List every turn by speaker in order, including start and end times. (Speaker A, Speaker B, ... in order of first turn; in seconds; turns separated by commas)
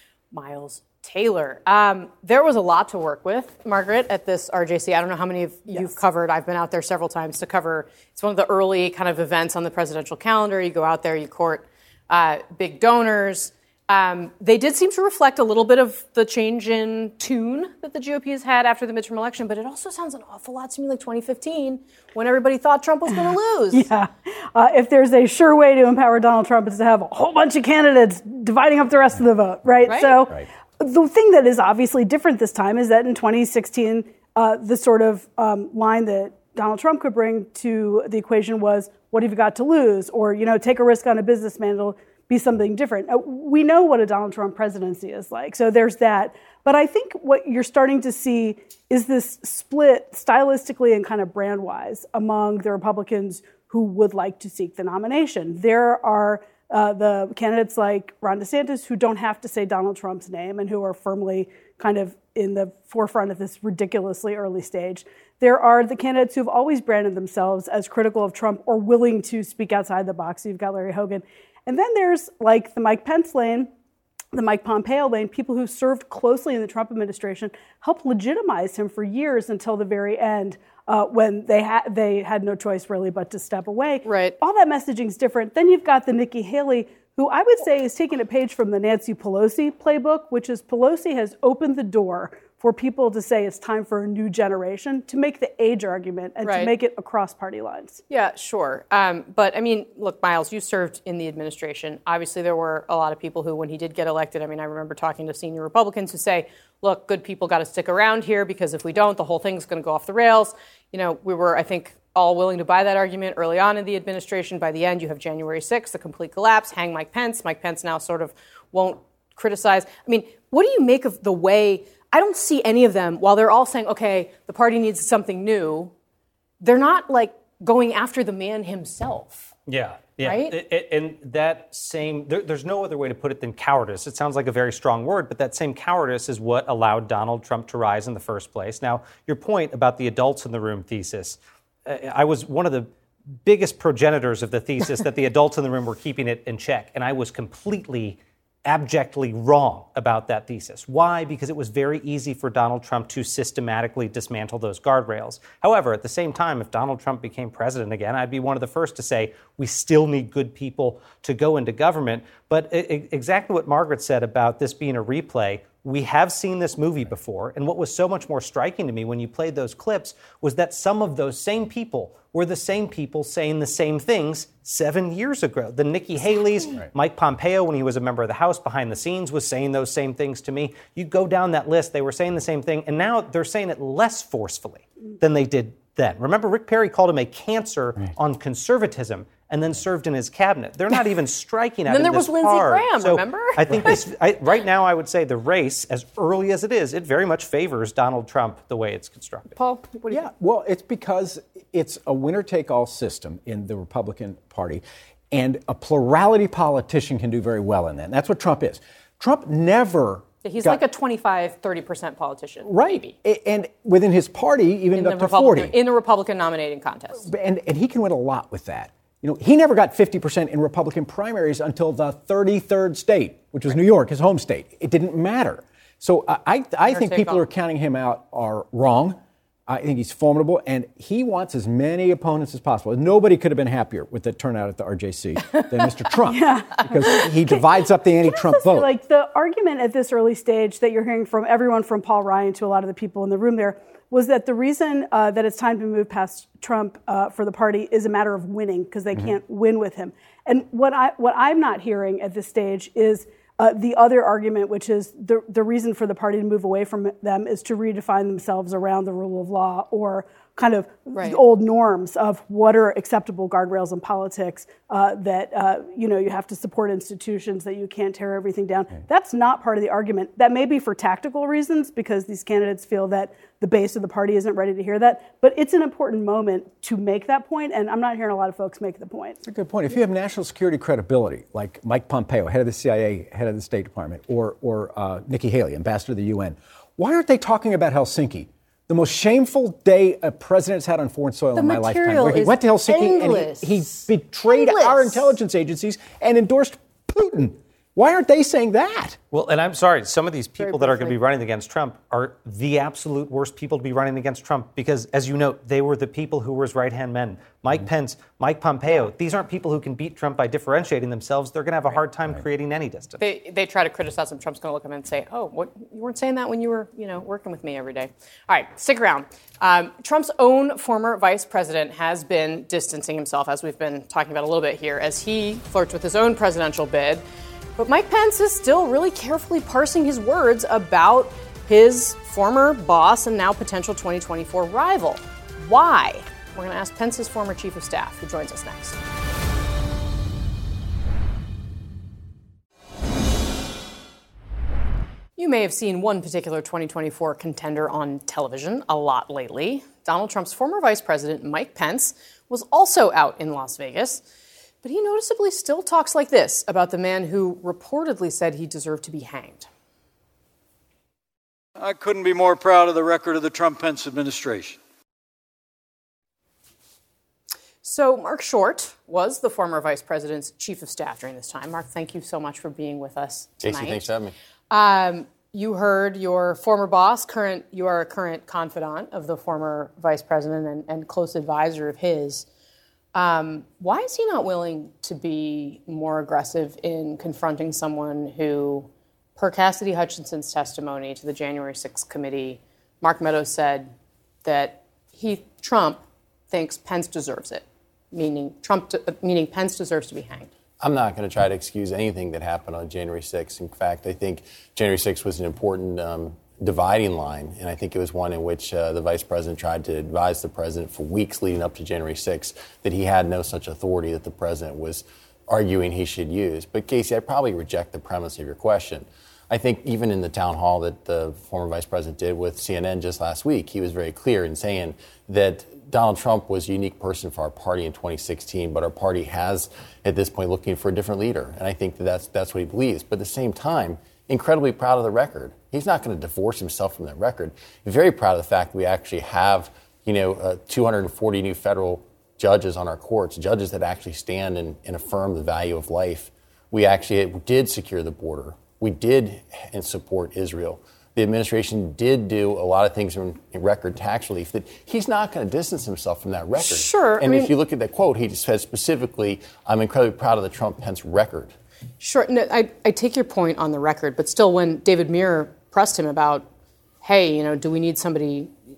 Speaker A: 0.3-23.9, Speaker B: 5.7-5.9, Speaker B: 23.7-73.7, Speaker A: 29.9-30.2, Speaker B: 74.3-98.0, Speaker A: 84.0-84.4, Speaker A: 96.4-96.7, Speaker A: 98.1-125.9, Speaker A: 126.6-129.5, Speaker C: 129.7-142.9, Speaker A: 130.2-130.6, Speaker C: 143.4-199.5, Speaker A: 191.9-193.9, Speaker A: 199.6-200.2, Speaker D: 200.1-210.8, Speaker A: 210.4-213.1, Speaker D: 212.6-215.7, Speaker A: 214.9-217.3, Speaker D: 217.2-238.9, Speaker A: 226.8-227.5, Speaker B: 236.2-279.4, Speaker A: 261.1-261.4, Speaker D: 279.4-299.2, Speaker A: 291.5-295.3, Speaker C: 299.3-313.2, Speaker A: 300.6-301.1, Speaker A: 313.2-327.2, Speaker A: 327.8-339.0, Speaker A: 345.4-354.2, Speaker A: 354.8-359.7, Speaker E: 361.8-364.8, Speaker A: 367.8-374.1, Speaker F: 373.6-374.3, Speaker A: 374.7-382.5, Speaker A: 383.1-393.9, Speaker A: 394.4-400.5, Speaker F: 400.8-461.5, Speaker A: 456.6-457.5, Speaker A: 462.0-466.5, Speaker A: 467.0-468.5